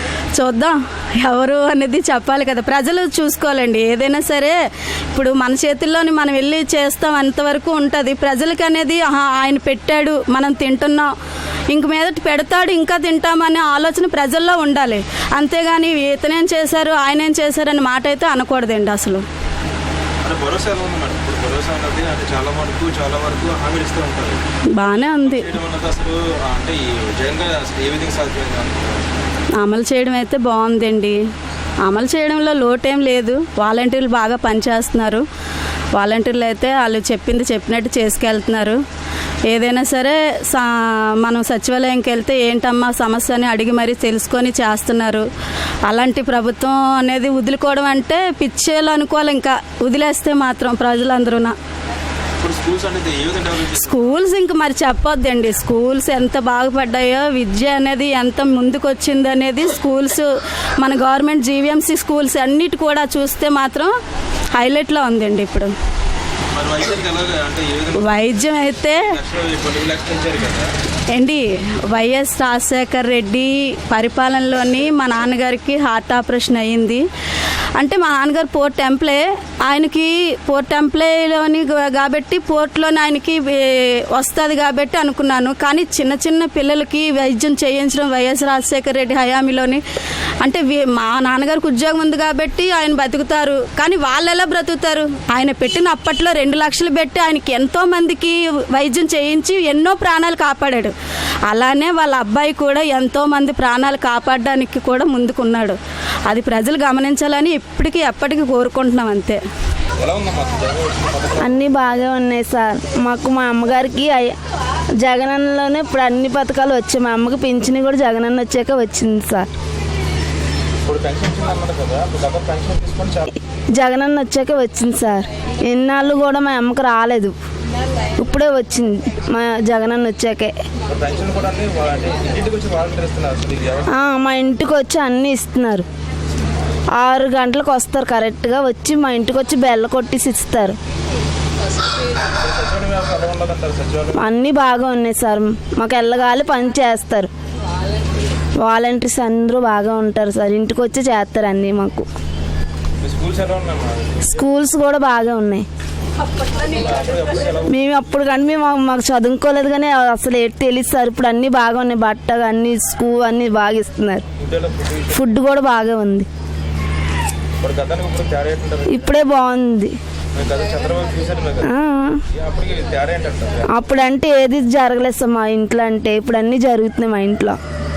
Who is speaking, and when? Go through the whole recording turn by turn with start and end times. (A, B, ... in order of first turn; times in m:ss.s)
0:00.4-0:04.6 A
0:05.1-0:11.1 A
0:11.7-0:19.2 A
0:20.2-0:29.1 B
0:24.8-0:25.5 A
0:29.6-0:31.2 A
0:31.8-0:35.2 A
0:36.0-0:38.8 A
0:39.5-0:45.3 A
0:45.9-0:51.6 A
0:52.4-0:54.1 B
0:53.7-1:03.9 A
1:04.6-1:05.7 A
1:06.5-1:10.7 B
1:08.0-1:09.1 A
1:11.1-1:17.0 A
1:17.8-1:29.8 A
1:30.4-1:40.9 A
1:41.5-1:49.4 A
1:50.0-1:51.6 B
1:51.4-1:54.4 C
1:55.0-1:59.5 C
2:00.9-2:03.4 B
2:03.8-2:07.3 C
2:08.2-2:10.6 C
2:10.9-2:14.0 B
2:13.9-2:15.9 C
2:17.0-2:20.8 C
2:22.4-2:24.3 B
2:24.2-2:27.3 C
2:28.6-2:32.1 C
2:33.0-2:34.4 B
2:34.3-2:35.7 C
2:36.6-2:37.7 B
2:37.7-2:44.3 C
2:44.4-2:45.3 B
2:45.1-2:46.3 C
2:47.6-2:49.1 B
2:48.9-2:50.0 C
2:50.4-2:51.8 B
2:51.6-2:52.2 C
2:52.3-2:53.8 B
2:53.7-2:57.6 C